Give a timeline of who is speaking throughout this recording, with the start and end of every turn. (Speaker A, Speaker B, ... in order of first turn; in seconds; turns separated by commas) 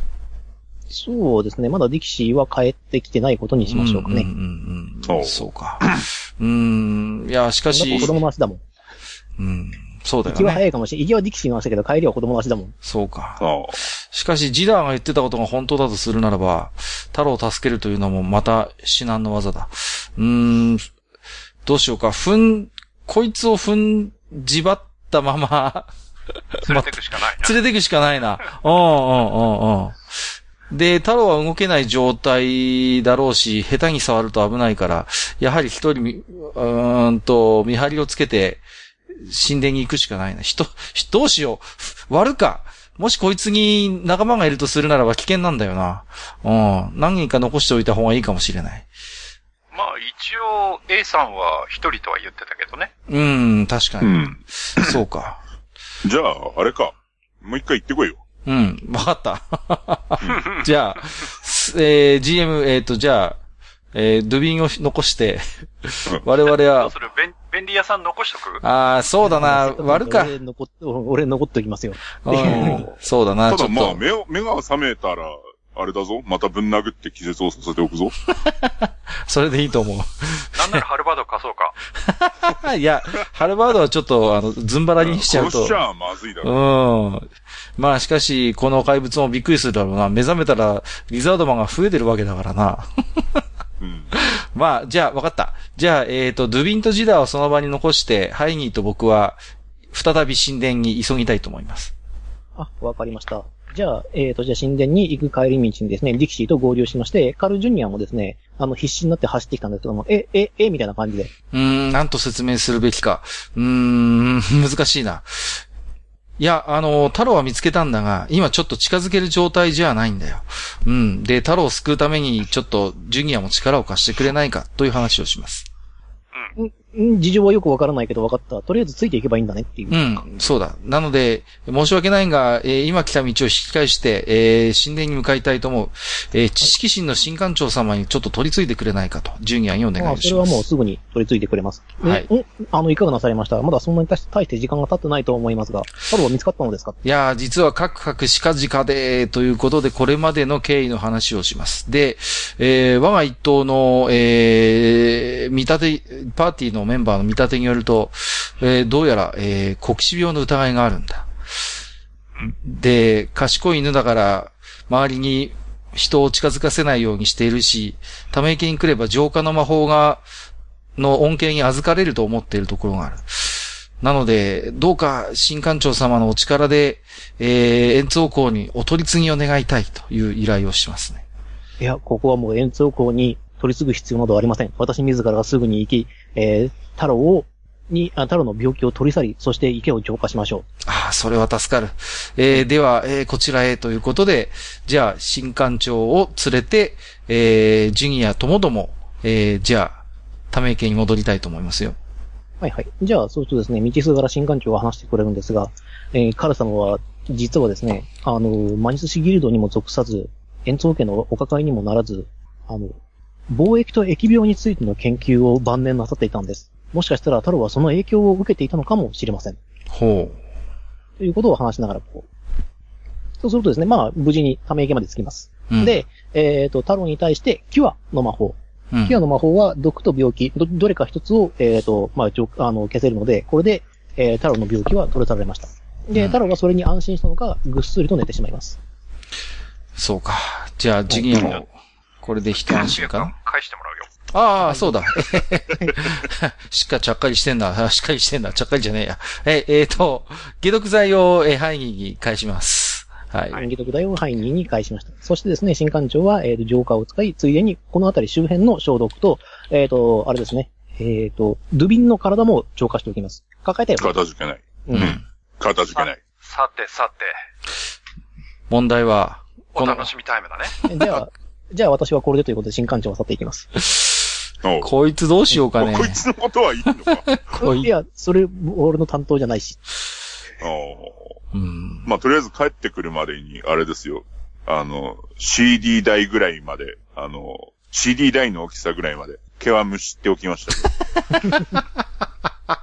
Speaker A: 0.9-4.3, Speaker B: 3.7-8.1, Speaker C: 5.0-6.0, Speaker A: 7.7-8.6, Speaker C: 7.9-8.2, Speaker B: 9.4-10.6, Speaker A: 10.2-12.7, Speaker B: 12.8-13.4, Speaker C: 13.4-13.8, Speaker B: 14.1-20.9, Speaker B: 21.6-25.9, Speaker B: 26.5-38.6, Speaker D: 26.6-27.6, Speaker B: 39.1-48.9, Speaker D: 49.7-52.9, Speaker B: 53.1-55.4, Speaker C: 54.0-55.0, Speaker C: 56.0-58.2, Speaker B: 58.5-63.4, Speaker C: 60.2-60.5, Speaker B: 63.9-66.9, Speaker D: 66.7-68.6, Speaker B: 68.6-70.3, Speaker A: 69.2-72.9, Speaker B: 72.2-74.0, Speaker C: 73.5-78.1, Speaker B: 78.3-80.8, Speaker D: 80.5-81.8, Speaker B: 82.0-85.8, Speaker C: 85.0-86.5, Speaker B: 86.4-93.4, Speaker C: 93.8-94.1, Speaker B: 94.1-99.4, Speaker B: 99.9-101.9, Speaker A: 102.6-111.3, Speaker B: 111.5-115.6, Speaker B: 116.4-125.7, Speaker A: 126.6-130.3, Speaker B: 129.9-140.6, Speaker A: 140.0-147.0, Speaker B: 142.0-142.3, Speaker B: 147.0-161.3, Speaker B: 162.4-170.2, Speaker B: 171.0-181.2, Speaker A: 181.8-190.6, Speaker B: 190.8-200.0, Speaker B: 200.5-201.9, Speaker A: 202.6-213.0, Speaker A: 213.5-219.6, Speaker B: 219.9-220.4, Speaker A: 221.2-222.3, Speaker A: 223.4-238.8, Speaker B: 225.7-226.0, Speaker B: 228.9-229.2, Speaker B: 240.0-241.7, Speaker D: 241.3-241.6, Speaker B: 242.2-243.3, Speaker D: 242.6-244.1, Speaker B: 244.3-253.6, Speaker A: 244.6-244.9, Speaker A: 253.5-264.2, Speaker C: 264.0-266.2, Speaker A: 264.9-265.1, Speaker B: 264.9-265.2, Speaker D: 265.9-267.3, Speaker B: 268.7-270.1, Speaker D: 269.7-270.8, Speaker A: 270.8-273.7, Speaker B: 273.8-276.2, Speaker C: 274.6-274.9, Speaker C: 275.7-277.3, Speaker B: 277.1-277.9, Speaker A: 277.6-279.8, Speaker C: 280.6-281.4, Speaker B: 281.5-282.1, Speaker C: 282.0-290.9, Speaker B: 291.3-291.8